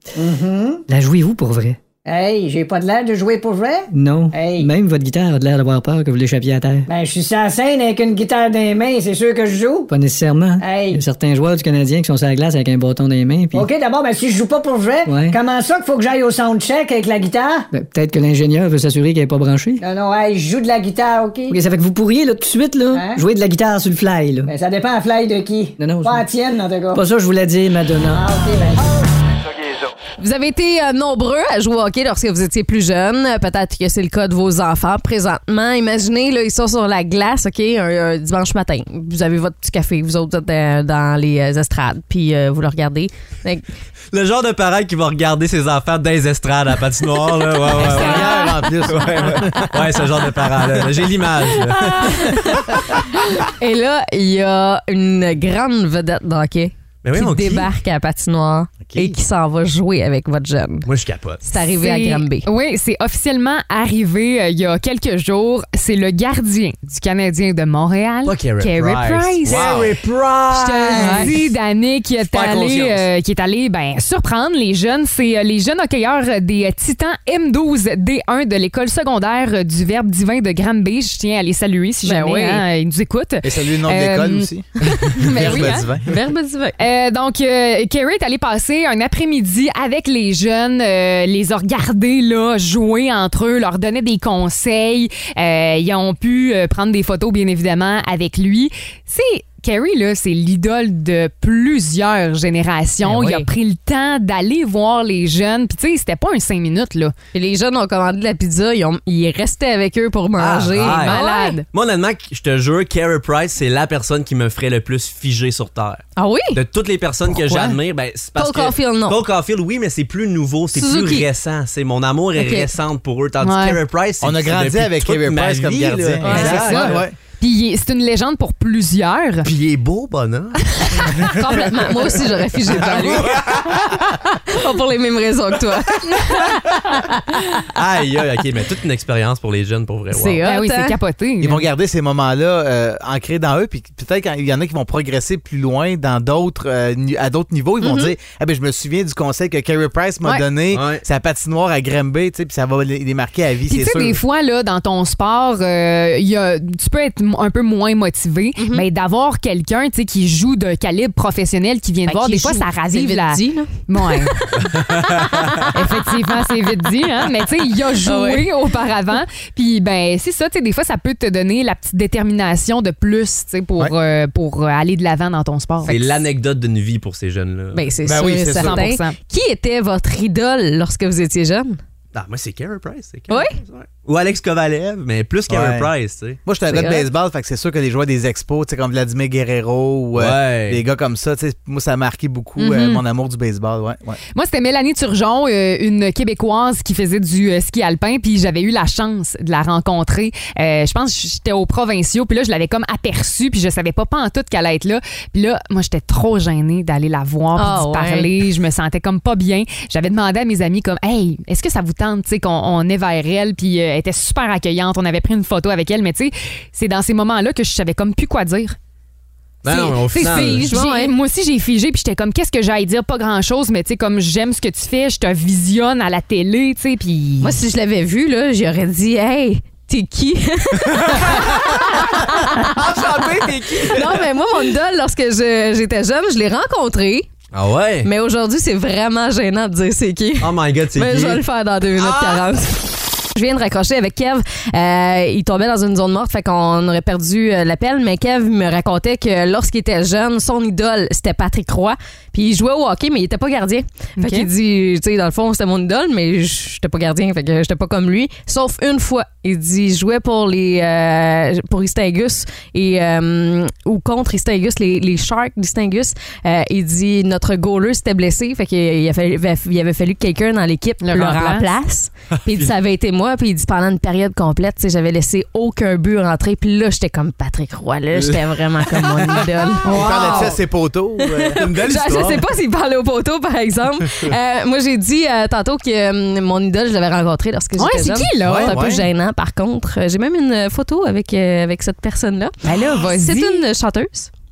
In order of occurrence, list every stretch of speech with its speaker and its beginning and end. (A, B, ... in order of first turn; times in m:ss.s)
0:00.2-0:00.8 A
0:00.9-0:01.8 B
0:02.0-0:04.7 A
0:03.9-0:06.9 B
0:06.9-0:09.9 A
0:09.9-0:13.7 B
0:10.6-0:11.0 A
0:13.5-0:17.7 A
0:15.0-0:15.4 B
0:17.7-0:19.8 B
0:19.8-0:21.6 A
0:21.5-0:24.5 B
0:22.9-0:23.2 A
0:24.4-0:27.0 A
0:25.8-0:26.2 B
0:26.9-0:28.3 B
0:28.1-0:29.0 A
0:30.2-0:43.6 C
0:44.1-0:52.4 D
0:47.7-0:49.8 E
0:47.8-0:48.4 F
0:52.2-0:52.5 C
0:53.6-1:00.9 C
0:57.0-0:57.7 D
0:58.8-0:59.2 E
1:00.8-1:01.5 D
1:01.4-1:02.5 C
1:01.8-1:09.7 F
1:08.2-1:11.5 D
1:09.4-1:09.9 E
1:10.5-1:25.9 F
1:10.9-1:11.3 C
1:12.3-1:13.0 D
1:22.0-1:22.6 C
1:23.4-1:26.1 E
1:25.4-1:26.8 C
1:26.8-1:47.1 F
1:43.0-1:43.5 C
1:47.3-1:51.6 C
1:50.4-2:07.0 D
1:51.0-1:51.6 F
1:56.2-1:56.6 C
1:58.4-1:59.2 C
2:00.7-2:01.2 C
2:02.4-2:02.7 C
2:03.4-2:03.8 F
2:04.2-2:07.1 E
2:06.2-2:06.8 C
2:06.2-2:09.5 F
2:09.4-2:13.9 D
2:11.2-2:13.7 C
2:14.5-2:17.4 C
2:17.7-2:20.4 D
2:20.1-2:21.0 C
2:20.4-2:21.6 F
2:21.4-2:34.2 E
2:27.8-2:28.1 C
2:30.7-2:31.0 D
2:33.7-2:44.4 F
2:38.6-2:38.8 C
2:42.0-2:46.1 C
2:44.6-2:45.4 D
2:45.7-2:56.0 F
2:48.0-2:48.5 C
2:55.8-2:57.9 D
2:57.7-3:01.8 C
2:58.0-2:58.8 E
2:58.4-2:59.2 F
3:02.1-3:06.4 D
3:05.5-3:05.9 E
3:06.4-3:14.2 E
3:06.7-3:07.1 C
3:10.1-3:10.8 D
3:12.6-3:13.0 F
3:14.3-3:38.8 F
3:27.5-3:28.3 C
3:39.6-3:40.7 D
3:39.6-3:47.5 F
3:39.8-3:41.1 C
3:47.4-3:53.1 C
3:50.9-3:54.3 D
3:53.6-3:57.3 C
3:57.5-3:58.1 D
3:58.0-4:40.6 C
4:00.4-4:01.4 D
4:02.0-4:02.4 D
4:14.2-4:14.5 F
4:31.0-4:31.6 F
4:32.4-4:32.7 D
4:38.2-4:38.4 D
4:39.0-4:39.4 D
4:39.8-4:40.6 F
4:39.9-4:42.4 E
4:41.2-4:54.3 C
4:41.6-4:42.4 D
4:47.8-4:48.8 F
4:48.4-4:49.0 E
4:52.6-4:53.6 F